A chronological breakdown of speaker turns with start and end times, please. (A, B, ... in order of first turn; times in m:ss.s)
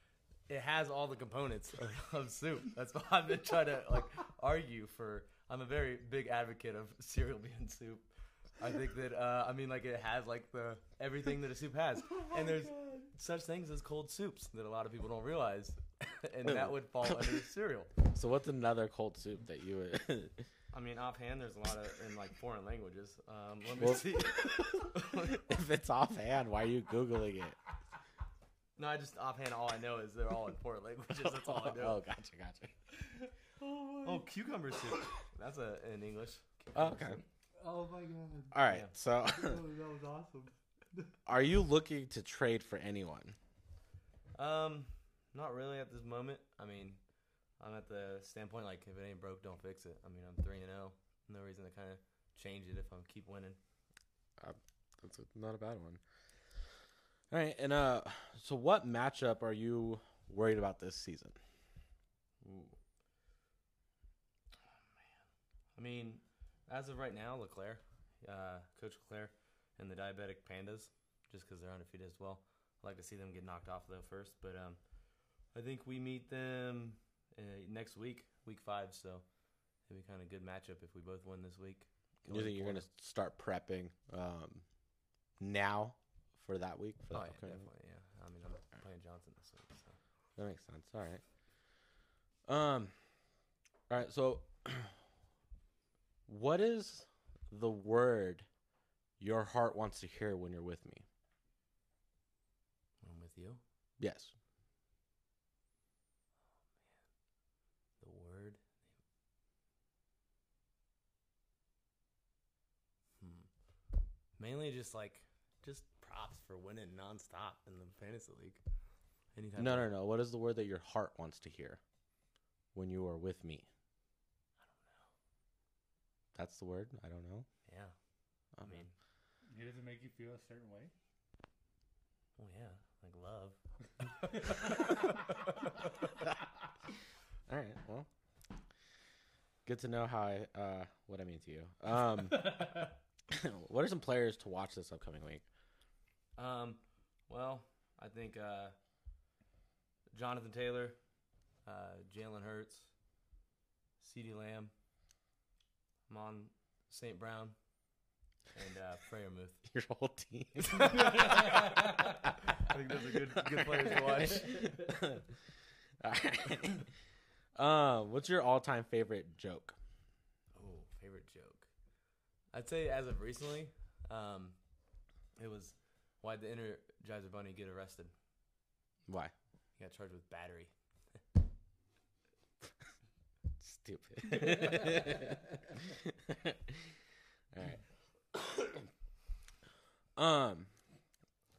0:00.5-0:17.9 A
0:18.0-0:20.5 B
0:20.7-0:25.4 A
0:23.8-0:27.6 B
0:28.8-0:32.0 A
0:31.5-0:32.7 B
0:33.6-0:34.2 C
0:34.0-0:37.2 A
0:36.7-0:37.2 B
0:37.6-0:38.6 C
0:38.5-0:39.6 B
0:38.7-0:38.9 A
0:39.3-0:40.5 C
0:41.2-0:43.4 B
0:44.3-0:47.0 A
0:47.6-0:53.6 A
0:54.4-0:56.0 B
0:57.3-1:01.4 B
1:02.4-1:02.8 A
1:05.7-1:14.8 A
1:15.5-1:19.3 A
1:19.8-1:22.9 A
1:22.3-1:24.7 B
1:25.4-1:27.7 B
1:27.1-1:30.0 A
1:30.4-1:31.2 B
1:32.5-1:32.9 B
1:33.9-1:35.0 B
1:36.3-1:38.4 B
1:39.2-1:41.0 B
1:43.0-1:43.6 A
1:44.0-1:44.3 B
1:48.0-1:48.6 A
1:53.2-1:53.5 A
1:54.4-1:58.6 A
1:59.3-1:59.9 A
1:59.6-2:01.8 B
2:02.7-2:03.7 B
2:04.7-2:05.0 A
2:06.3-2:07.5 B
2:07.6-2:07.9 A
2:08.6-2:08.8 B
2:08.6-2:08.9 A
2:09.5-2:10.9 C
2:12.4-2:13.6 A
2:14.2-2:14.8 A
2:17.5-2:18.1 B
2:19.6-2:25.4 B
2:26.4-2:28.8 A
2:30.1-2:31.0 A
2:31.6-2:32.9 A
2:34.0-2:34.7 A
2:36.1-2:37.5 A
2:38.5-2:39.6 A
2:39.6-2:42.1 B
2:40.8-2:44.8 A
2:43.4-2:45.3 B
2:46.0-2:46.9 B
2:47.6-2:49.8 B
2:50.5-2:51.7 A
2:52.5-2:54.6 A
2:55.4-2:58.1 A
2:59.1-2:59.3 B
2:59.8-3:00.7 A
3:03.6-3:06.8 B
3:07.5-3:07.8 B
3:08.3-3:08.9 B
3:10.2-3:10.7 B